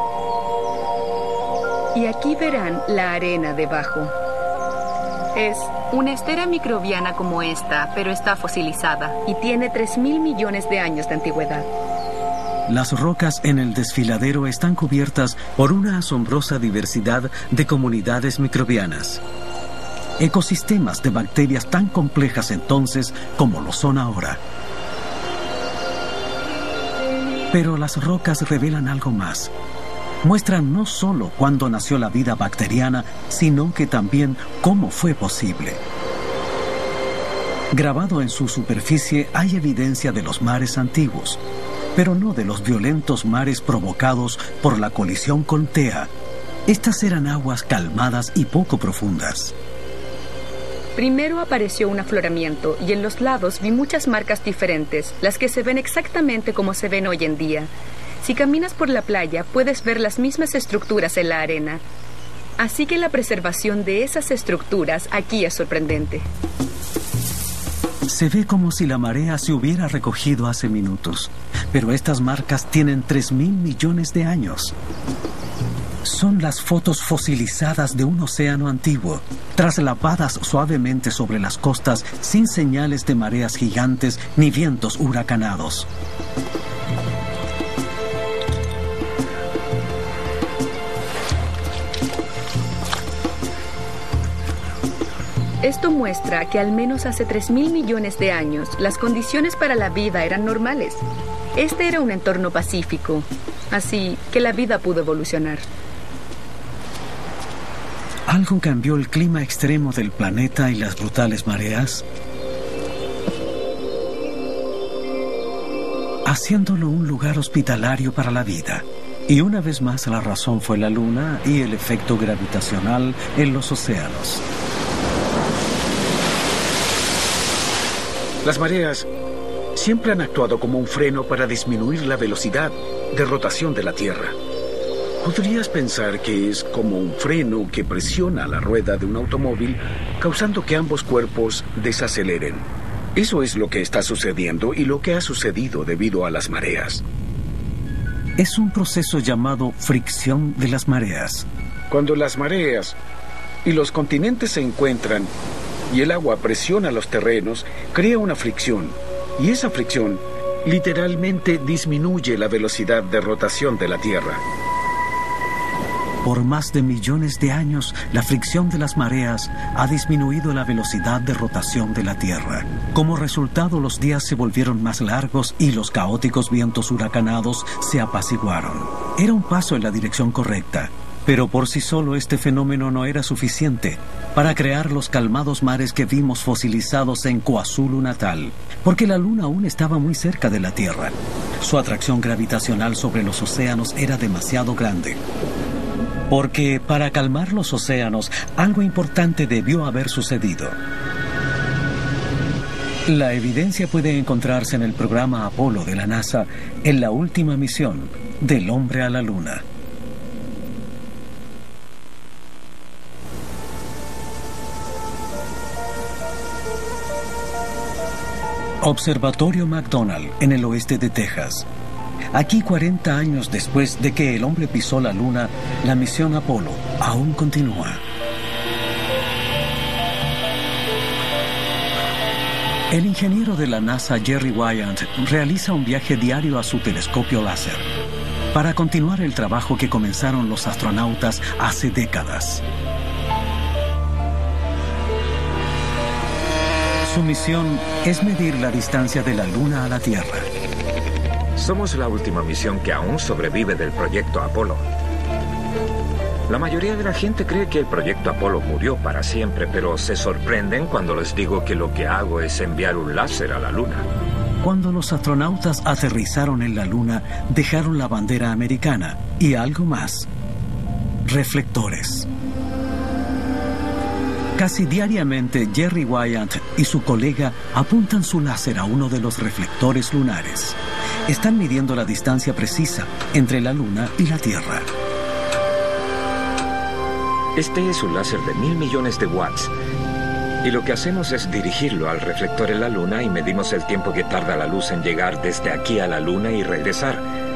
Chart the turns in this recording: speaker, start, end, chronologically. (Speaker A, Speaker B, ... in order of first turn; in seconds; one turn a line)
Speaker A: 1.9-4.1
Speaker A: 5.3-11.7
Speaker B: 12.7-19.2
Speaker B: 20.2-24.4
Speaker B: 27.5-29.5
Speaker B: 30.2-35.8
Speaker B: 37.7-41.4
Speaker B: 42.0-46.1
Speaker B: 46.7-49.5
Speaker A: 51.0-61.8
Speaker A: 62.6-66.3
Speaker B: 68.1-74.8
Speaker B: 76.0-85.9
Speaker A: 95.6-105.7
Speaker B: 108.3-112.0
Speaker B: 116.2-124.4
Speaker C: 128.4-129.1
Speaker C: 129.8-134.4
Speaker C: 135.2-147.0
Speaker B: 148.4-151.5
Speaker C: 151.9-153.0
Speaker C: 153.6-155.3
Speaker C: 155.9-164.4
Speaker B: 166.2-195.2
Speaker B: 196.3-200.8
Speaker B: 203.1-209.6
Speaker B: 218.8-221.7
Speaker B: 222.3-228.0
Speaker B: 232.9-237.9
Speaker B: 238.5-242.6
Speaker B: 247.0-250.5
Speaker D: 251.6-254.8
Speaker D: 256.5-264.1
Speaker B: 264.6-270.3
Speaker B: 271.2-272.3
Speaker B: 274.6-284.9
Speaker D: 287.6-289.7
Speaker D: 290.6-297.2